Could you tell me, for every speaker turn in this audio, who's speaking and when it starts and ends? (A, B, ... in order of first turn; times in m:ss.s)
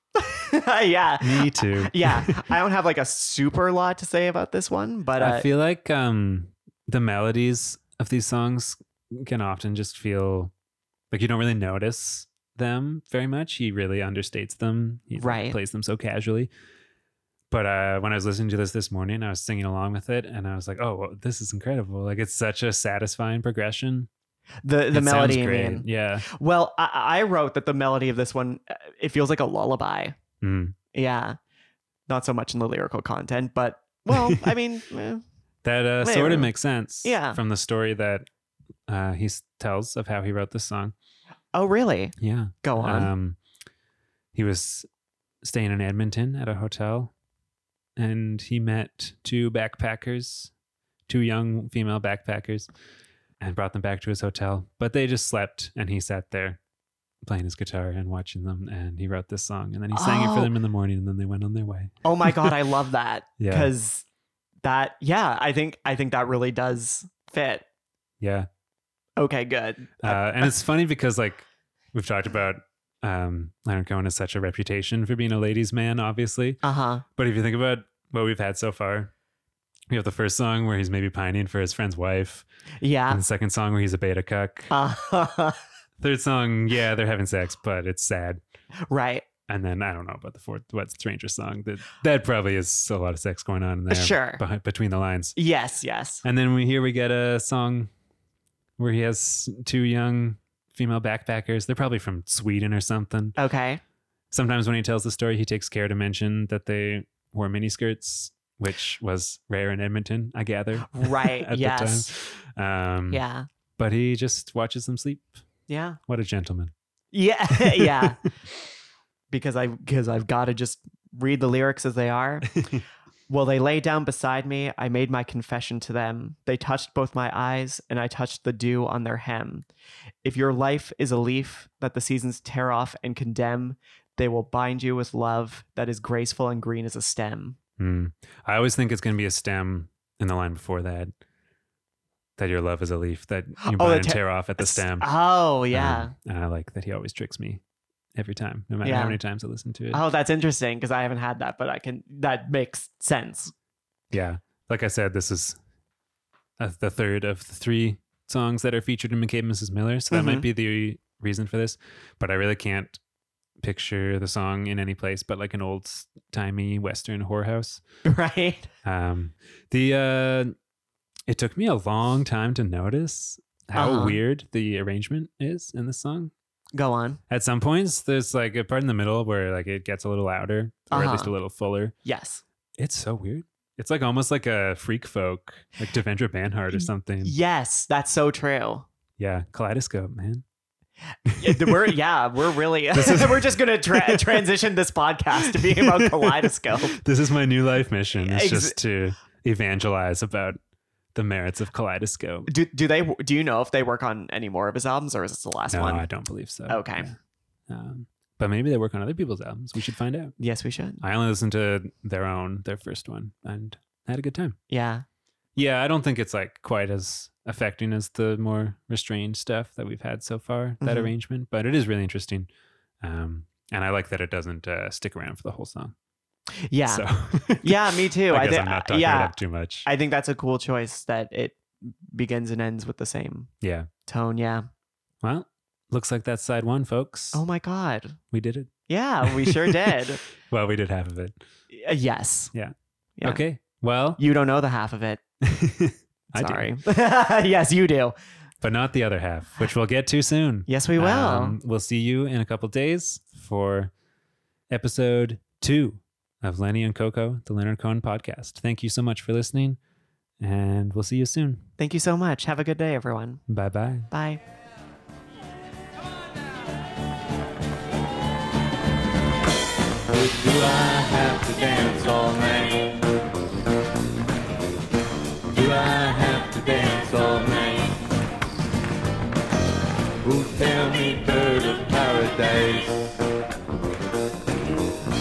0:00.1-0:05.4 A
0:01.2-0:02.5 B
0:05.2-0:10.5 B
0:11.1-0:16.5 B
0:15.2-0:15.6 A
0:17.5-0:24.1 B
0:24.6-0:30.2 A
0:24.9-0:26.2 B
0:30.4-0:30.8 B
0:30.9-0:31.4 A
0:32.1-0:35.2 A
0:34.1-0:34.4 B
0:35.6-0:38.3 B
0:36.0-0:36.5 A
0:37.0-0:37.4 A
0:38.9-0:40.9 B
0:41.5-0:43.1 A
0:42.2-0:43.4 B
0:44.3-0:44.9 B
0:45.4-0:47.1 B
0:48.0-0:50.5 B
0:51.1-0:52.7 B
0:53.4-0:56.6 B
0:57.2-1:02.5 B
0:59.9-1:00.5 A
1:02.0-1:04.0 A
1:03.4-1:03.7 B
1:04.6-1:07.6 A
1:08.2-1:08.5 B
1:09.2-1:10.5 A
1:10.0-1:16.6 B
1:16.6-1:17.0 A
1:17.1-1:19.1 B
1:19.9-1:22.4 B
1:22.8-1:23.2 A
1:23.1-1:24.7 B
1:24.7-1:25.6 A
1:26.0-1:28.4 B
1:28.9-1:29.2 A
1:29.5-1:35.3 B
1:33.9-1:34.4 A
1:35.4-1:36.2 A
1:36.2-1:37.9 B
1:38.8-1:43.4 B
1:43.4-1:43.8 A
1:44.3-1:53.2 B
1:50.9-1:52.1 A
1:53.1-1:53.5 A
1:53.8-1:55.4 B
1:55.7-1:56.0 A
1:56.1-1:56.7 B
1:57.1-1:58.2 A
1:57.6-1:58.1 B
1:59.3-2:02.6 A
2:02.5-2:02.8 B
2:03.3-2:09.6 A
2:10.2-2:17.6 A
2:17.8-2:21.1 B
2:22.4-2:25.1 B
2:23.6-2:26.1 A
2:25.7-2:27.6 B
2:28.1-2:30.0 B
2:28.8-2:29.2 A
2:29.9-2:33.5 A
2:34.1-2:35.6 B
2:36.6-2:43.0 B
2:40.1-2:40.4 A
2:43.6-2:47.8 B
2:48.0-2:48.7 A
2:48.8-2:50.5 B
2:51.3-2:56.3 B
2:53.8-2:54.2 A
2:56.7-2:57.2 A
2:57.3-3:01.9 B
3:00.9-3:01.3 A
3:02.0-3:02.4 A
3:02.8-3:07.3 B
3:06.7-3:08.9 A
3:09.2-3:10.4 B
3:11.2-3:12.0 B
3:11.4-3:17.0 A
3:12.9-3:14.5 B
3:15.5-3:20.6 B
3:18.2-3:18.8 A
3:21.1-3:22.5 B
3:22.5-3:26.1 A
3:25.7-3:27.2 B
3:26.7-3:27.1 A
3:27.7-3:30.3 B
3:30.4-3:31.0 A
3:31.0-3:34.6 B
3:34.7-3:35.0 A
3:35.6-3:42.5 B
3:40.8-3:41.1 A
3:43.0-3:45.9 B
3:46.6-3:47.0 A
3:46.8-3:49.9 B
3:47.6-3:53.5 A
3:53.6-3:53.9 B
3:54.1-3:54.6 A
3:55.2-3:57.4 B
3:57.3-3:58.2 A
3:58.3-3:58.7 B
3:58.9-4:00.2 A
3:59.2-4:01.4 B
4:01.7-4:02.5 A
4:02.5-4:04.2 B
4:04.2-4:05.2 A
4:05.4-4:06.7 B
4:06.3-4:08.1 A
4:08.6-4:13.9 B
4:10.7-4:11.6 A
4:14.7-4:19.8 B
4:20.4-4:21.7 B
4:21.8-4:23.4 A
4:23.5-4:24.1 B
4:24.1-4:24.4 A
4:30.1-4:32.9 C
4:35.5-4:37.9 C
4:40.2-4:43.0 C